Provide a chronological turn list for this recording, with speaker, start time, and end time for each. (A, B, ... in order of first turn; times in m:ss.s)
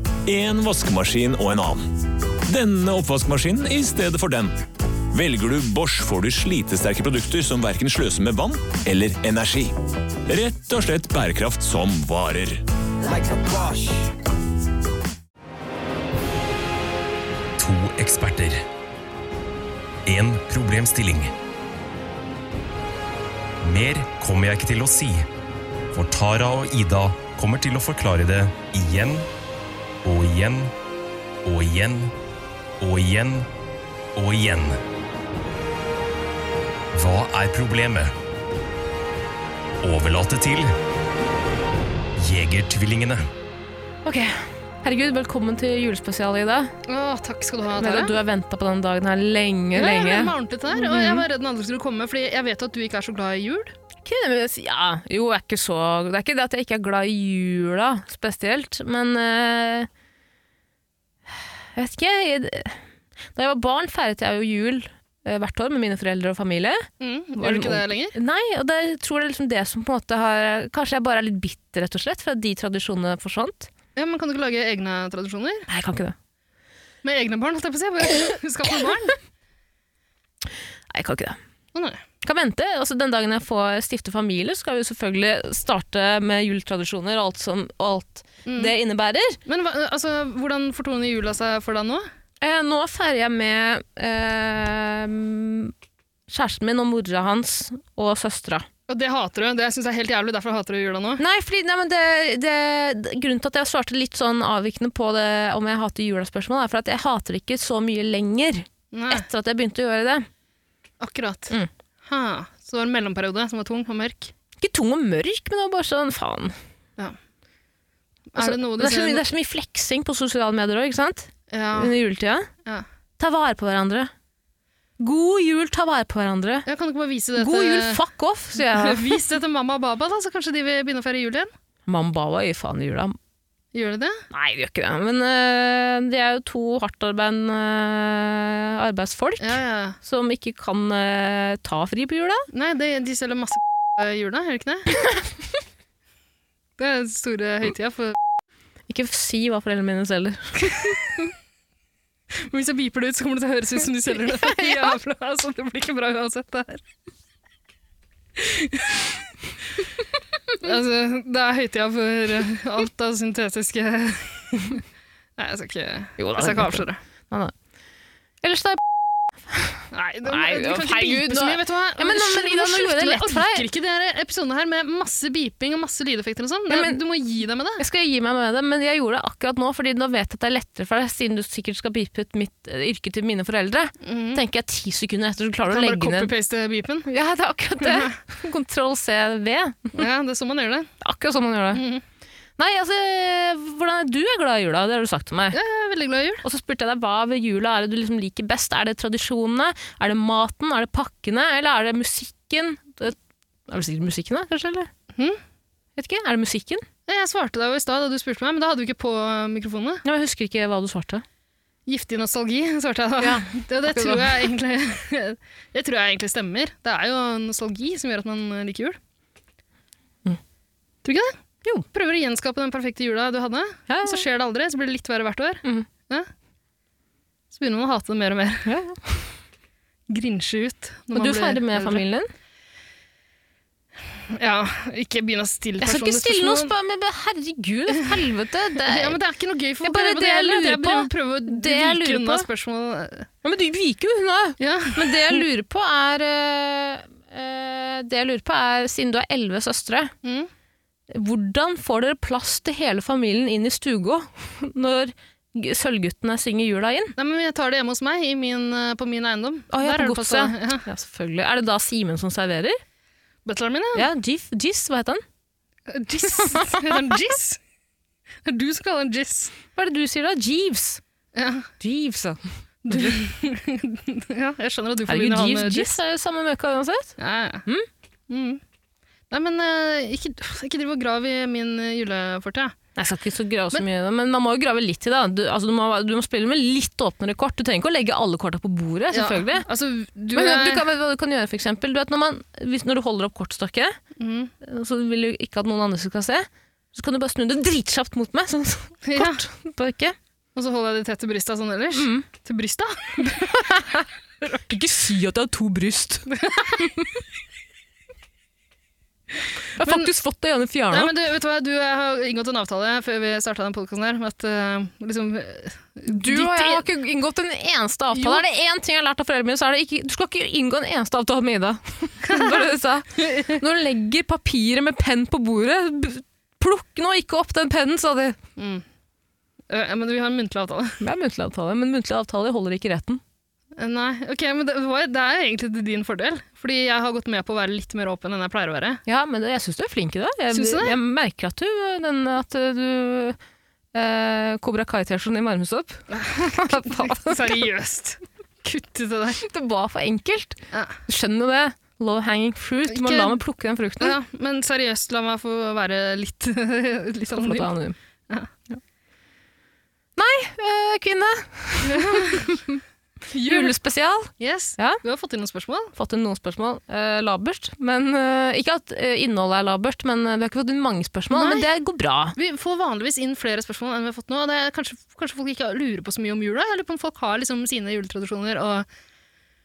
0:00.2-0:01.8 A
0:02.4-0:04.5 A
0:05.1-0:09.7 A
0:10.3-0:12.6 A
0:17.6-0:18.6 B
0:20.0-0:21.3 B
0:23.6-0:25.3 B
0:25.9-0:29.3 B
0:30.0-0:30.7 B
0:31.4-0:32.1 B
0:32.8-0:33.5 B
0:34.2-0:34.8 B
0:36.9-0:38.1 B
0:39.8-0:40.7 B
0:42.2-0:43.2 B
0:44.0-0:46.7 C
0:46.8-0:48.2 D
0:47.7-0:51.2 C
0:49.7-0:53.7 D
0:54.0-0:59.9 C
1:01.3-1:02.8 C
1:03.3-1:06.8 C
1:07.0-1:08.1 D
1:07.4-1:13.7 C
1:14.0-1:15.7 D
1:15.7-1:16.2 C
1:17.0-1:19.2 D
1:20.9-1:21.4 C
1:21.7-1:22.0 D
1:22.2-1:29.4 C
1:28.4-1:28.7 D
1:29.4-1:32.1 D
1:32.4-1:35.7 C
1:36.3-1:38.7 C
1:38.9-1:41.2 D
1:41.2-1:50.3 C
1:48.9-1:49.2 D
1:51.0-1:54.3 D
1:54.6-1:56.6 C
1:58.3-1:59.2 D
1:58.4-2:02.5 C
2:01.5-2:01.9 D
2:03.2-2:04.1 C
2:05.0-2:06.7 C
2:06.6-2:08.0 D
2:07.4-2:09.2 C
2:08.6-2:11.5 D
2:11.8-2:13.2 C
2:13.7-2:14.2 D
2:14.3-2:22.5 C
2:19.4-2:20.0 D
2:22.5-2:24.9 D
2:24.9-2:25.3 C
2:26.8-2:28.2 D
2:28.9-2:30.9 C
2:30.7-2:31.0 D
2:32.4-2:36.8 D
2:34.1-2:35.0 C
2:38.4-2:39.0 D
2:40.6-2:44.8 D
2:45.4-2:47.0 D
2:46.2-2:47.5 C
2:48.4-2:48.8 C
2:49.5-2:53.7 C
2:49.9-2:57.8 D
2:56.7-2:57.0 C
2:57.8-3:06.3 C
3:04.0-3:04.4 D
3:05.7-3:07.1 D
3:07.0-3:10.0 C
3:07.8-3:08.1 D
3:09.9-3:10.9 D
3:11.0-3:11.8 C
3:11.7-3:12.0 D
3:12.6-3:15.6 C
3:15.5-3:16.4 D
3:16.4-3:24.9 C
3:25.1-3:25.4 D
3:26.0-3:26.8 C
3:27.1-3:30.0 D
3:30.0-3:31.2 C
3:31.9-3:39.0 D
3:33.2-3:34.5 C
3:41.0-3:41.3 D
3:41.9-3:46.3 D
3:43.9-3:44.2 C
3:47.5-3:48.7 D
3:48.6-3:49.3 C
3:50.1-3:52.0 D
3:51.1-3:52.3 C
3:54.3-3:56.7 D
3:55.8-3:59.2 C
3:58.8-4:03.3 D
3:59.8-4:02.5 C
4:03.4-4:10.1 C
4:04.6-4:05.4 D
4:10.2-4:10.5 D
4:11.1-4:17.1 C
4:17.2-4:20.8 D
4:19.7-4:22.8 C
4:23.4-4:24.1 D
4:23.9-4:25.2 C
4:25.9-4:27.6 D
4:26.4-4:27.1 C
4:28.4-4:29.5 D
4:29.8-4:31.0 C
4:31.3-4:31.7 D
4:31.8-4:33.2 C
4:32.8-4:35.9 D
4:35.1-4:37.9 C
4:37.2-4:37.6 D
4:38.3-4:38.6 D
4:39.3-4:42.7 D
4:43.0-4:49.7 C
4:49.1-4:50.8 D
4:50.3-4:54.0 C
4:54.2-4:54.5 D
4:54.6-5:00.2 C
4:59.0-4:59.4 D
5:00.5-5:03.6 D
5:01.9-5:02.2 C
5:03.2-5:07.0 C
5:06.3-5:06.9 D
5:09.8-5:11.1 C
5:09.8-5:10.1 D
5:10.9-5:16.8 D
5:16.1-5:28.4 C
5:18.1-5:18.4 D
5:22.2-5:23.6 D
5:28.6-5:28.8 D
5:29.7-5:31.0 D
5:31.0-5:33.2 C
5:33.8-5:39.0 D
5:39.0-5:43.4 C
5:40.5-5:41.0 D
5:43.9-5:47.6 C
5:46.1-5:49.4 D
5:49.4-5:54.2 C
5:50.7-5:51.0 D
5:52.9-5:53.4 D
5:54.0-5:57.7 D
5:57.3-5:58.0 C
6:00.2-6:02.8 C
6:01.8-6:02.5 D
6:03.3-6:03.7 D
6:03.4-6:05.0 C
6:04.4-6:05.9 D
6:06.0-6:12.4 C
6:11.3-6:11.6 D
6:12.4-6:18.8 D